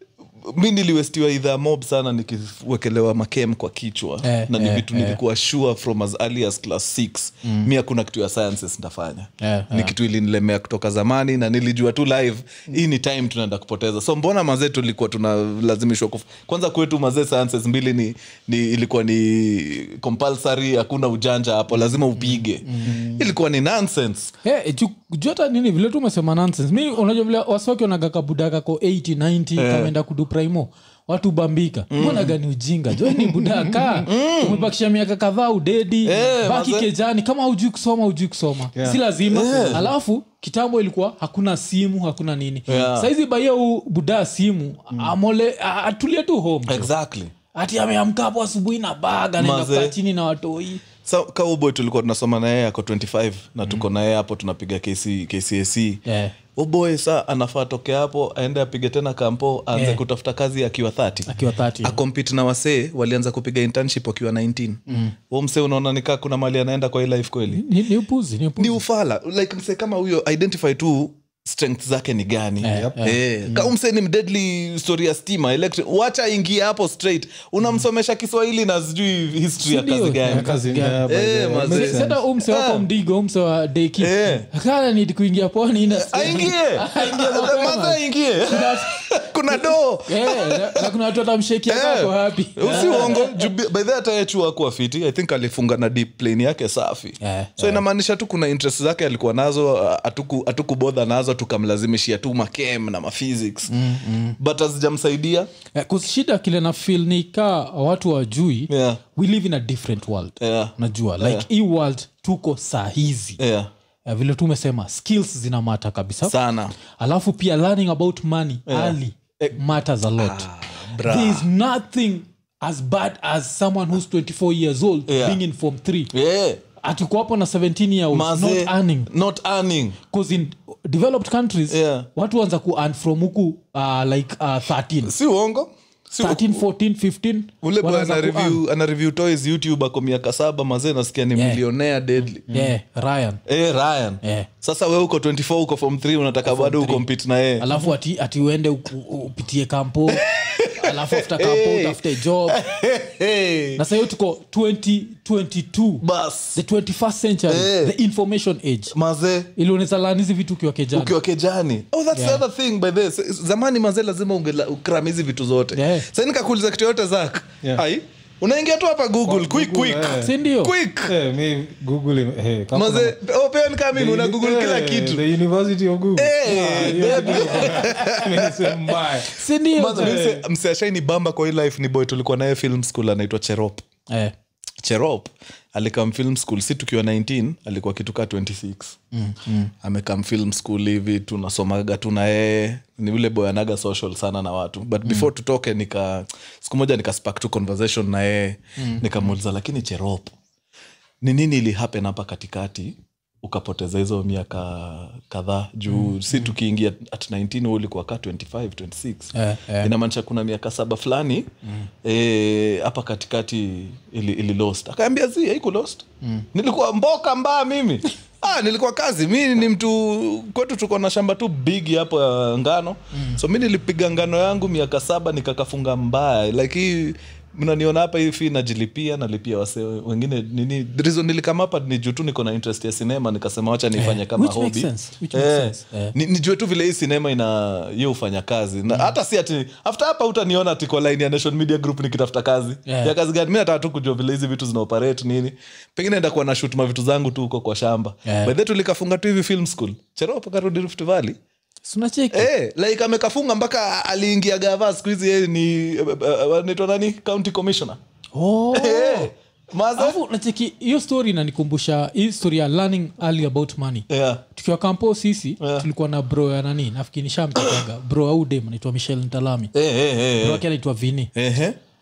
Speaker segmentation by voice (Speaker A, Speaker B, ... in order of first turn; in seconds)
Speaker A: 0.4-24.3, 29.6-29.9, 31.9-32.4, 34.0-34.7, 36.0-36.9, 39.3-39.9, 42.7-43.1, 46.7-47.3, 49.4-50.0, 51.0-56.0, 56.5-67.6, 68.6-80.5, 81.1-82.8, 84.0-84.5, 85.9-90.9, 91.7-103.7, 104.4-105.5, 108.7-109.0, 110.4-111.5, 113.4-113.7, 116.2-116.7, 118.7-119.6, 120.2-121.5, 125.1-125.4, 126.1-126.6, 128.1-130.0, 131.7-132.1, 135.0-136.6, 137.6-142.5, 143.5-147.7, 150.1-153.8, 156.0-156.6, 157.5-157.9, 158.9-159.5, 160.9-171.1, 172.7-175.2, 176.2-179.0, 179.8-183.8, 184.8-189.0, 189.8-200.3, 201.2-211.5, 212.0-251.4, 252.3-258.0, 258.7-260.2, 264.1-264.4, 265.6-265.9, 269.7-270.6, 271.3-271.8
Speaker B: 4.2-5.2, 7.4-7.7, 9.4-9.9, 22.4-23.0, 24.4-46.9, 47.5-50.9, 56.1-56.4, 59.7-60.0, 61.3-62.0, 64.9-65.1, 67.5-68.8, 72.6-73.2, 79.6-81.1, 81.7-93.5, 97.2-97.8, 103.7-104.4, 105.7-113.4, 114.1-116.3, 117.0-120.5, 121.0-126.1, 126.8-129.1, 130.1-135.1, 136.2-138.6, 141.3-141.6, 142.5-143.4, 144.2-144.5, 146.4-147.1, 147.6-152.6, 153.8-158.9, 159.6-161.2, 162.1-162.4, 165.7-166.1, 170.1-170.7, 176.5-178.1, 179.3-180.2, 189.1-189.7, 198.8-199.1, 205.9-206.5, 209.3-209.9, 223.1-223.4, 233.9-236.2, 242.9-243.1, 248.2-248.5, 251.8-252.5, 258.4-259.3, 260.0-269.7, 270.4-271.3
Speaker C: 22.9-23.2, 33.1-34.0, 38.8-39.9, 72.7-73.0, 80.3-82.2, 169.3-170.3, 171.1-173.2, 173.9-179.3, 179.9-180.4